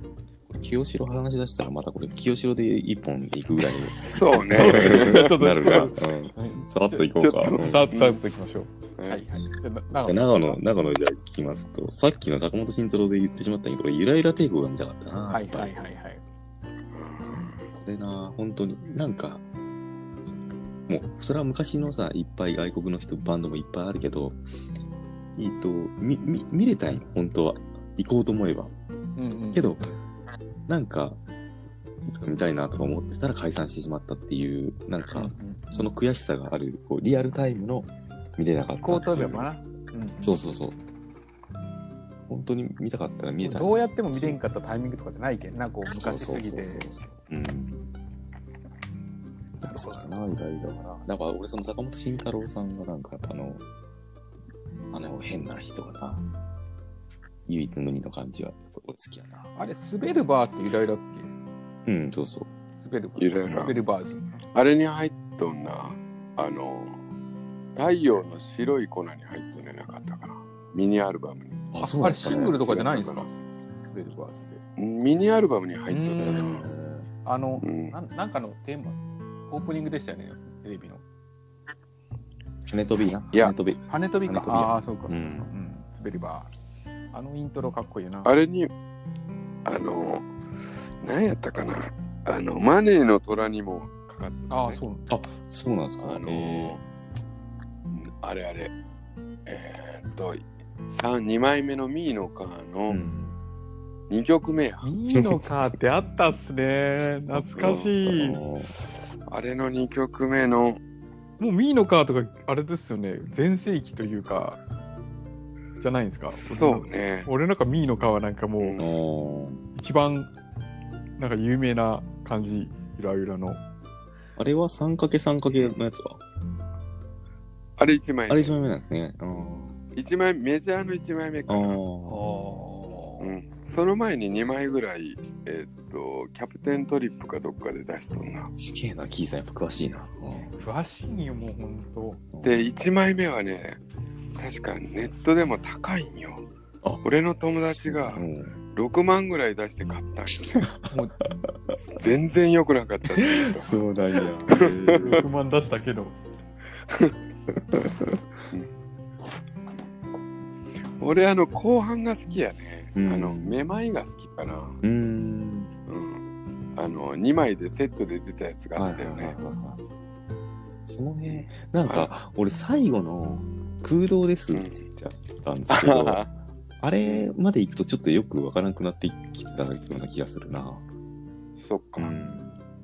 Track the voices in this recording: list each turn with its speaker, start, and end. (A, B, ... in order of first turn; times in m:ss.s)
0:00.5-0:07.9 A
0:04.0-0:05.9 B
0:04.6-0:10.6 C
0:07.2-0:08.2 B
0:09.0-0:09.2 B
0:10.0-0:15.8 A
0:15.3-0:16.2 C
0:16.9-0:17.6 B
0:17.7-0:19.4 A
0:20.3-0:24.4 A
0:25.4-0:28.7 A
0:29.2-0:30.0 C
0:29.5-0:29.9 A
0:30.7-0:31.2 A
0:32.0-0:39.5 A
0:35.1-0:35.9 C
0:38.8-0:40.5 C
0:40.2-0:40.8 A
0:42.3-0:44.4 A
0:43.4-0:47.1 C
0:45.9-0:47.9 A
0:49.6-0:50.3 C
0:49.6-0:53.6 A
0:54.9-0:56.2 A
0:57.5-0:59.5 A
0:59.6-1:01.3 C
1:01.9-1:02.5 A
1:02.8-1:04.4 C
1:03.2-1:03.8 B
1:03.5-1:03.8 A
1:04.5-1:07.0 B
1:07.8-1:11.7 B
1:11.7-1:12.6 A
1:11.8-1:14.6 C
1:12.4-1:13.3 B
1:14.8-1:16.6 B
1:15.9-1:16.6 C
1:16.2-1:17.1 A
1:17.2-1:19.0 C
1:17.6-1:18.0 B
1:19.5-1:21.0 C
1:22.7-1:25.5 A
1:23.9-1:26.5 C
1:27.1-1:28.3 C
1:28.2-1:28.7 B
1:29.6-1:30.3 B
1:31.0-1:34.8 B
1:34.5-1:35.1 C
1:35.1-1:36.8 A
1:36.0-1:36.8 B
1:37.9-1:38.7 B
1:39.5-1:43.0 B
1:42.9-1:43.4 A
1:44.1-1:44.9 B
1:44.8-1:48.4 C
1:45.2-1:45.5 A
1:47.3-1:48.7 A
1:47.6-1:47.9 B
1:49.3-1:50.8 B
1:51.4-1:54.6 C
1:55.8-1:58.8 C
1:56.4-1:57.3 B
1:58.6-1:58.9 B
1:58.8-1:59.6 A
1:59.8-2:00.3 C
2:01.2-2:03.6 C
2:04.4-2:06.2 A
2:07.8-2:08.7 B
2:08.3-2:09.8 A
2:09.9-2:11.8 B
2:11.5-2:12.2 A
2:12.1-2:13.3 C
2:13.2-2:18.5 B
2:18.6-2:20.6 A
2:20.4-2:22.2 C
2:22.3-2:22.7 A
2:22.4-2:23.8 B
2:24.4-2:26.4 B
2:27.0-2:30.7 B
2:27.6-2:28.6 A
2:30.5-2:31.8 A
2:30.9-2:31.2 C
2:31.9-2:33.8 B
2:33.1-2:35.3 A
2:34.5-2:35.2 B
2:34.9-2:36.2 C
2:37.5-2:38.2 A
2:41.0-2:44.8 B
2:43.0-2:43.6 A
2:44.8-2:45.7 A
2:45.9-2:46.2 B
2:46.8-2:49.4 B
2:48.8-2:49.8 A
2:50.9-2:56.2 A
2:51.3-2:52.2 B
2:54.5-2:54.8 B
2:55.7-2:56.3 B
2:56.8-3:00.8 A
2:57.0-2:57.3 B
3:01.6-3:02.1 B
3:02.0-3:02.6 A